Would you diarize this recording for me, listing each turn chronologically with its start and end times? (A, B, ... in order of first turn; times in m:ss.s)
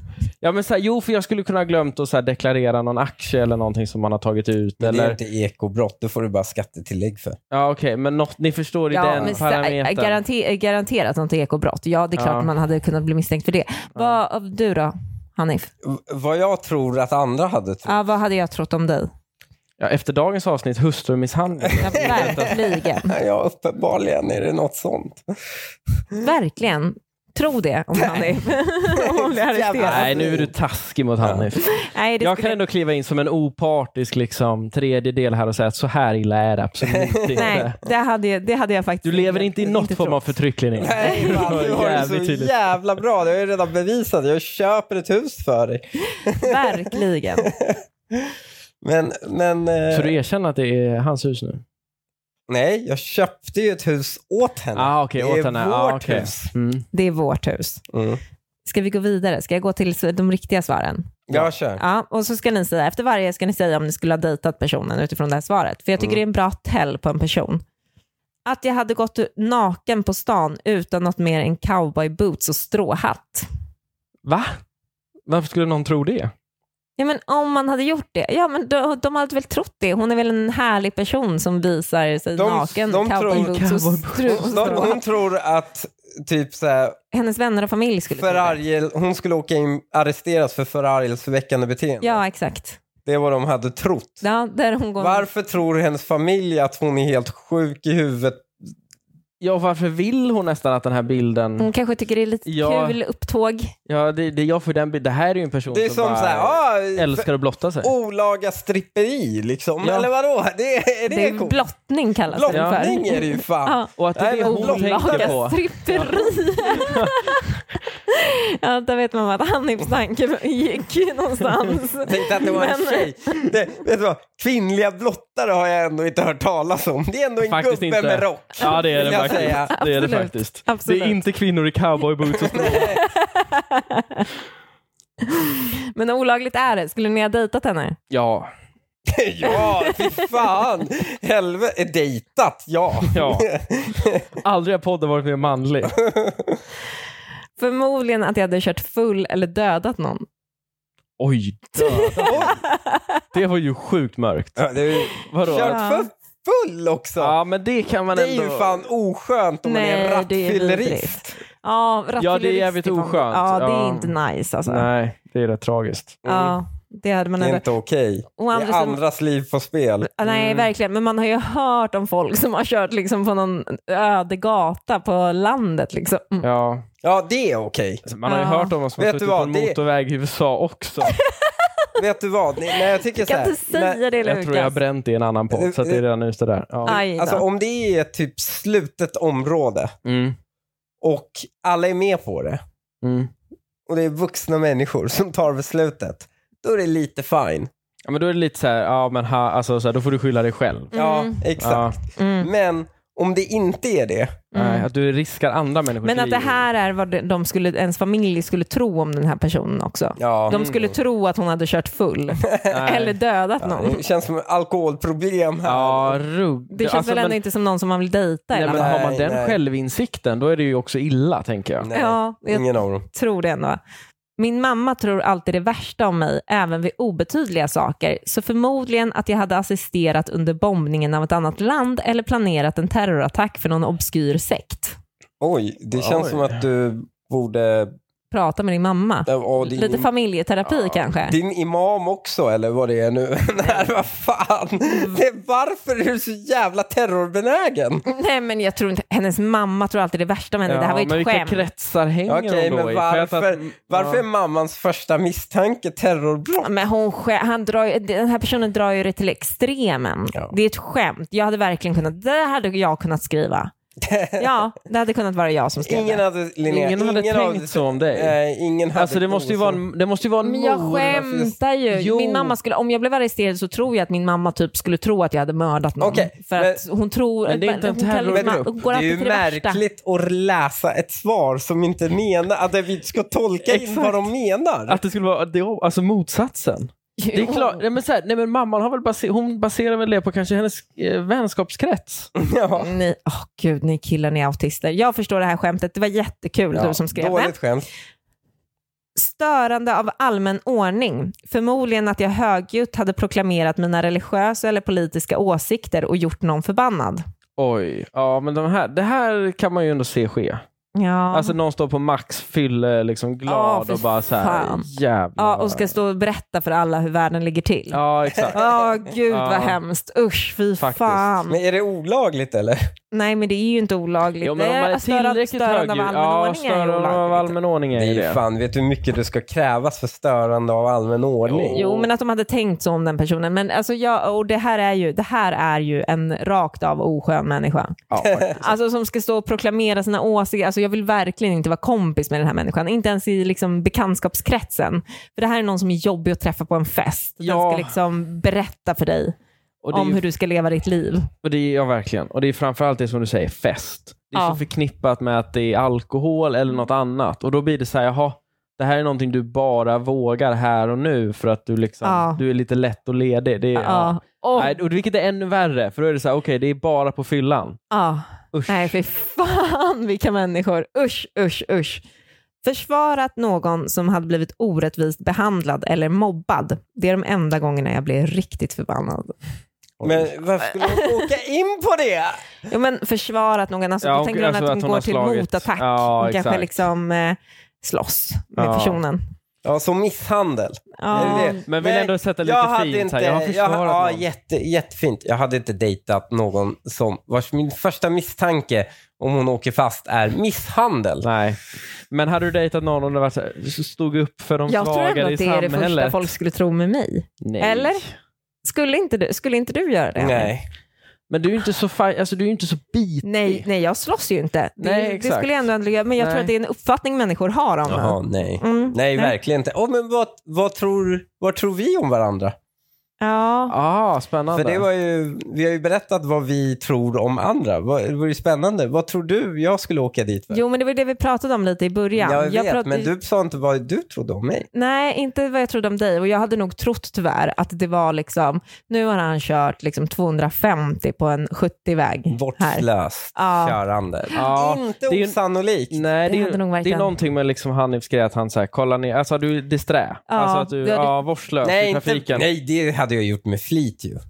0:00.4-0:05.2 A
0:04.8-0:07.4 B
0:07.5-0:10.2 A
0:08.9-0:15.7 C
0:12.2-0:12.5 A
0:15.8-0:18.0 B
0:17.9-0:19.1 C
0:19.8-0:22.6 A
0:21.6-0:25.3 B
0:21.8-0:23.2 C
0:26.2-0:30.1 C
0:28.0-0:30.5 B
0:29.8-0:37.8 A
0:31.2-0:31.5 B
0:31.6-0:32.6 C
0:36.8-0:37.6 B
0:37.4-0:40.2 C
0:39.0-0:42.5 A
0:40.8-0:50.2 B
0:41.0-0:41.7 C
0:46.1-0:47.5 C
0:49.9-0:51.6 A
0:52.5-0:56.5 B
0:54.8-0:56.8 A
0:56.9-0:57.8 C
0:57.9-0:58.2 B
0:58.7-1:01.2 C
1:01.3-1:01.8 B
1:01.8-1:07.6 C
1:08.5-1:13.5 C
1:14.2-1:14.6 A
1:15.3-1:16.3 A
1:17.0-1:25.0 C
1:22.4-1:23.7 B
1:23.3-1:24.9 A
1:24.3-1:27.0 B
1:27.1-1:28.6 C
1:28.1-1:32.2 B
1:32.0-1:32.8 C
1:33.0-1:34.2 B
1:34.2-1:35.3 C
1:35.0-1:38.5 B
1:39.4-1:41.7 A
1:41.6-1:43.8 C
1:42.5-1:43.0 A
1:43.9-1:47.9 A
1:45.7-1:47.3 B
1:47.8-1:51.6 B
1:49.8-1:50.1 A
1:51.1-1:57.5 C
1:52.3-1:55.4 B
1:52.5-1:52.9 A
1:54.0-1:57.3 A
1:58.1-2:03.4 C
2:02.0-2:09.8 B
2:07.4-2:13.0 A
2:08.6-2:11.2 C
2:12.3-2:13.0 B
2:12.7-2:14.3 C
2:15.2-2:18.0 C
2:18.1-2:18.5 A
2:19.1-2:24.4 B
2:19.4-2:20.4 C
2:23.1-2:23.5 A
2:24.4-2:26.0 A
2:25.9-2:26.6 B
2:27.6-2:30.3 C
2:31.2-2:32.6 A
2:31.8-2:33.1 C
2:32.3-2:32.6 B
2:33.3-2:35.8 A
2:34.6-2:37.4 B
2:35.5-2:36.1 C
2:37.2-2:38.9 A
2:38.1-2:41.4 B
2:39.6-2:44.9 C
2:42.2-2:46.2 A
2:46.2-2:46.6 B
2:46.3-2:47.6 C
2:47.4-2:50.1 B
2:48.4-2:49.0 C
2:50.0-2:56.5 C
2:50.2-2:50.7 A
2:56.4-2:56.9 A
2:57.0-2:58.0 B
2:58.1-3:01.2 A
2:58.3-2:58.7 C
2:59.0-2:59.8 B
3:01.0-3:02.0 C
3:02.0-3:04.0 B
3:02.7-3:04.8 C
3:04.2-3:07.0 A
3:05.5-3:06.0 B
3:06.8-3:07.4 C
3:06.9-3:09.9 B
3:10.0-3:10.4 A
3:11.0-3:12.6 B
3:13.0-3:13.3 A
3:13.9-3:17.7 B
3:18.1-3:20.9 A
3:20.9-3:21.5 C
3:20.9-3:24.5 B
3:21.6-3:22.0 A
3:22.2-3:22.5 C
3:24.5-3:24.9 C
3:24.5-3:26.6 A
3:26.0-3:34.0 C
3:30.2-3:30.6 B
3:30.5-3:30.9 A
3:32.4-3:32.8 B
3:32.7-3:33.2 A
3:33.6-3:36.2 B
3:35.6-3:37.4 A
3:36.7-3:39.0 C
3:38.5-3:41.9 A
3:38.6-3:39.6 B
3:41.8-3:43.1 B
3:41.9-3:43.8 C
3:44.4-3:55.0 C
3:55.4-3:57.9 B
3:56.0-3:56.5 A
3:58.3-4:01.4 C
3:59.3-4:00.1 B
4:01.3-4:08.0 B
4:08.1-4:11.7 C
4:10.7-4:14.2 A
4:12.3-4:16.7 B
4:16.6-4:23.7 C
4:24.0-4:24.5 B
4:24.4-4:26.2 C
4:25.8-4:29.8 B
4:26.7-4:28.4 A
4:28.9-4:31.2 A
4:30.4-4:39.8 C
4:31.0-4:31.6 B
4:31.9-4:32.6 A
4:36.0-4:36.8 B
4:37.5-4:38.7 A
4:38.3-4:45.0 B
4:43.6-4:44.3 A
4:44.9-4:52.3 A
4:47.2-4:47.8 C
4:52.4-4:52.9 B
4:52.8-4:57.6 C
4:56.7-4:57.9 B
4:59.2-5:07.2 C
5:07.6-5:10.6 A
5:11.0-5:11.6 C
5:11.3-5:16.0 A
5:13.5-5:18.0 C
5:17.9-5:19.8 A
5:18.3-5:18.6 B
5:18.5-5:21.6 C
5:20.8-5:21.3 A
5:21.5-5:22.9 B
5:23.1-5:27.6 C
5:24.4-5:28.4 A
5:28.0-5:31.9 B
5:31.5-5:32.0 A
5:31.7-5:49.4 C
5:38.1-5:38.6 A
5:38.2-5:38.6 B
5:47.4-5:48.0 A
5:49.8-5:50.2 A
5:49.9-5:51.3 C
5:51.4-6:07.8 A
5:54.4-5:54.6 C
6:02.0-6:02.4 C
6:03.8-6:04.7 C
6:07.9-6:12.0 C
6:08.5-6:09.0 A
6:12.6-6:19.4 C
6:20.0-6:20.3 A
6:20.0-6:22.4 B
6:20.6-6:21.2 C
6:22.7-6:29.2 C
6:24.0-6:26.7 A
6:28.6-6:29.0 A
6:29.6-6:41.3 B
6:31.0-6:31.6 C
6:31.1-6:34.2 A
6:41.2-6:41.6 A
6:42.1-6:46.3 A
6:44.7-6:48.0 C
6:47.4-6:48.1 A
6:48.6-6:50.5 C
6:50.2-6:50.6 B
6:51.3-6:53.6 A
6:53.2-6:59.4 C
6:54.8-6:55.7 A
6:56.2-6:56.5 A
6:57.9-7:02.6 B
7:03.2-7:03.8 C
7:03.7-7:04.8 A
7:04.5-7:10.6 B
7:10.5-7:13.1 C
7:12.2-7:14.7 B
7:14.7-7:23.8 C
7:22.3-7:26.0 B
7:24.4-7:25.4 A
7:25.9-7:32.5 A
7:26.3-7:27.1 C
7:30.3-7:31.2 C
7:31.6-7:34.2 B